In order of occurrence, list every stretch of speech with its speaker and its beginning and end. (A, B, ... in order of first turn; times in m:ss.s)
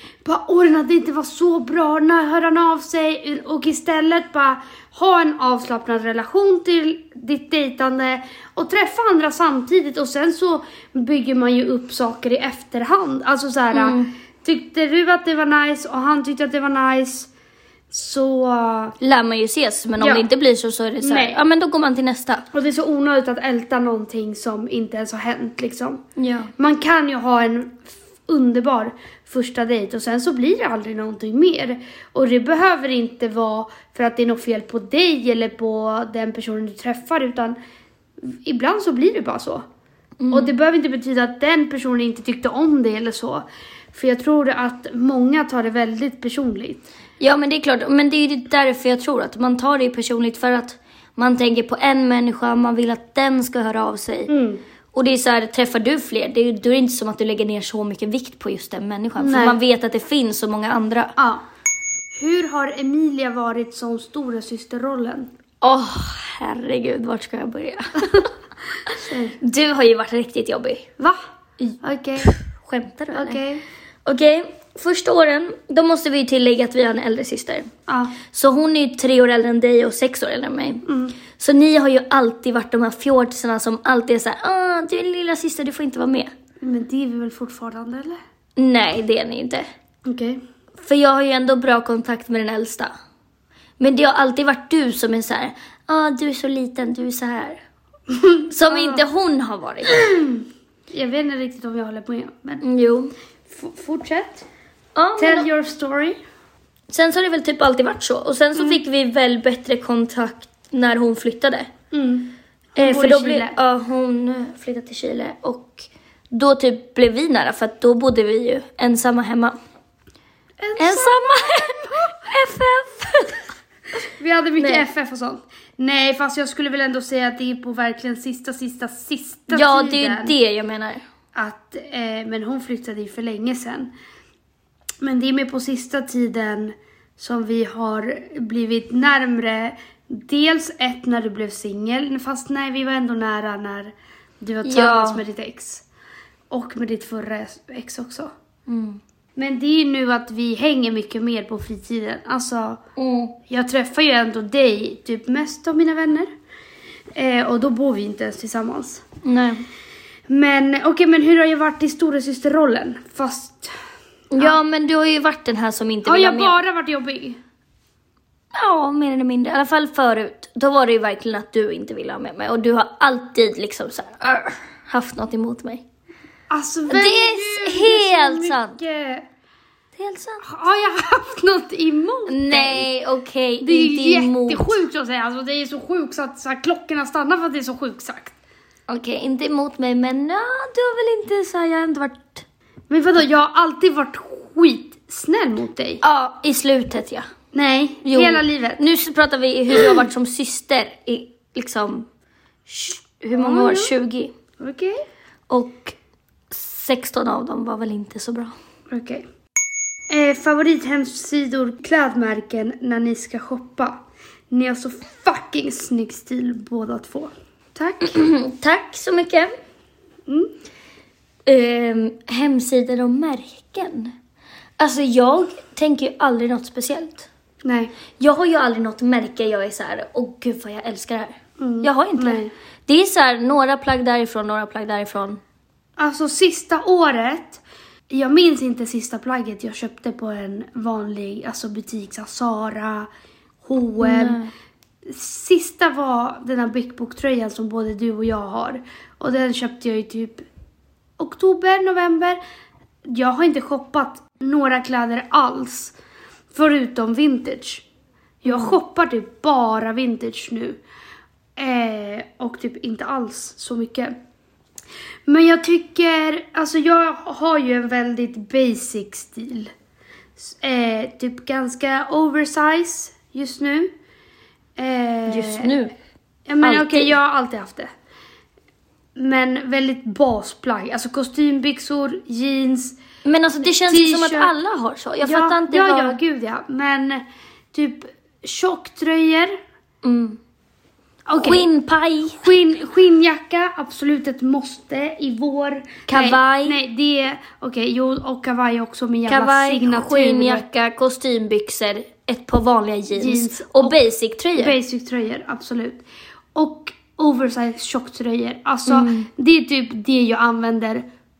0:00.2-0:17.3 A
0:13.7-0:14.1 B
0:17.9-0:19.0 A
0:19.0-0:22.4 B
0:20.0-0:20.2 A
0:21.0-0:21.4 A
0:22.5-0:26.0 A
0:26.2-0:26.5 B
0:26.6-0:37.6 A
0:38.2-0:39.6 A
0:40.2-0:40.5 B
0:40.3-0:46.8 A
0:47.2-0:54.3 B
0:54.3-0:54.6 A
0:54.9-1:01.1 B
0:59.2-0:59.6 A
1:01.2-1:01.4 A
1:02.1-1:05.3 A
1:05.6-1:08.3 B
1:08.9-1:09.4 A
1:08.9-1:10.9 B
1:11.0-1:11.2 A
1:11.6-1:13.4 B
1:11.8-1:12.3 A
1:13.1-1:13.6 A
1:14.0-1:17.7 B
1:17.9-1:18.2 A
1:18.3-1:26.3 B
1:20.8-1:21.1 A
1:26.6-1:28.2 A
1:28.6-1:29.7 B
1:30.0-1:30.4 A
1:30.8-1:32.9 B
1:33.8-1:37.6 B
1:38.1-1:39.0 A
1:38.5-1:40.0 B
1:39.8-1:42.6 A
1:42.6-1:43.1 B
1:43.5-1:44.4 A
1:45.0-1:45.5 B
1:45.2-1:46.2 A
1:46.9-1:51.7 B
1:51.9-1:53.5 A
1:52.8-1:59.6 B
2:00.6-2:02.1 A
2:00.8-2:03.4 B
2:04.0-2:10.3 A
2:04.6-2:04.8 B
2:09.5-2:11.0 B
2:11.3-2:13.9 A
2:15.0-2:25.8 A
2:24.6-2:25.2 B
2:26.5-2:28.3 A
2:28.7-2:29.0 B
2:29.4-2:32.8 A
2:33.0-2:33.3 B
2:33.5-2:36.3 A
2:37.1-2:39.0 A
2:39.2-2:39.6 B
2:40.3-2:43.7 A
2:44.3-2:46.6 B
2:46.0-2:47.4 A
2:48.5-2:55.8 B
2:56.5-2:59.3 A
2:56.9-2:58.8 B
3:00.0-3:00.5 B
3:00.4-3:02.9 A
3:02.3-3:04.8 B
3:03.6-3:08.4 A
3:08.9-3:12.4 B
3:12.9-3:16.0 A
3:16.0-3:17.3 B
3:17.5-3:18.8 A
3:18.0-3:22.1 B
3:22.7-3:24.3 B
3:23.3-3:23.9 A
3:24.6-3:25.0 A
3:25.5-3:25.9 B
3:26.5-3:28.5 B
3:28.9-3:29.2 A
3:30.1-3:38.2 A
3:38.0-3:39.5 B
3:41.4-3:44.1 B
3:44.8-3:47.3 B
3:47.6-3:47.9 A
3:48.2-3:55.4 B
3:51.6-3:52.5 A
3:56.0-4:03.1 A
4:03.6-4:04.4 A
4:04.0-4:04.5 B
4:05.0-4:10.4 A
4:11.2-4:12.4 A
4:13.0-4:16.0 A
4:16.5-4:17.8 A
4:18.4-4:20.8 A
4:18.4-4:18.7 B
4:21.6-4:24.1 A
4:25.3-4:29.7 A
4:30.4-4:33.9 A
4:34.8-4:35.7 A
4:35.3-4:35.9 B
4:36.5-4:37.9 A
4:36.6-4:37.2 B
4:39.2-4:43.0 A
4:43.2-4:46.2 B
4:43.8-4:44.5 A
4:45.2-4:49.6 A
4:50.0-4:50.4 B
4:51.3-4:51.6 A
4:51.4-4:52.4 B
4:52.4-5:00.6 A
4:56.1-4:56.8 B
4:59.3-5:04.8 B
5:03.2-5:04.0 A
5:04.6-5:06.0 A
5:06.5-5:11.0 A
5:08.9-5:09.3 B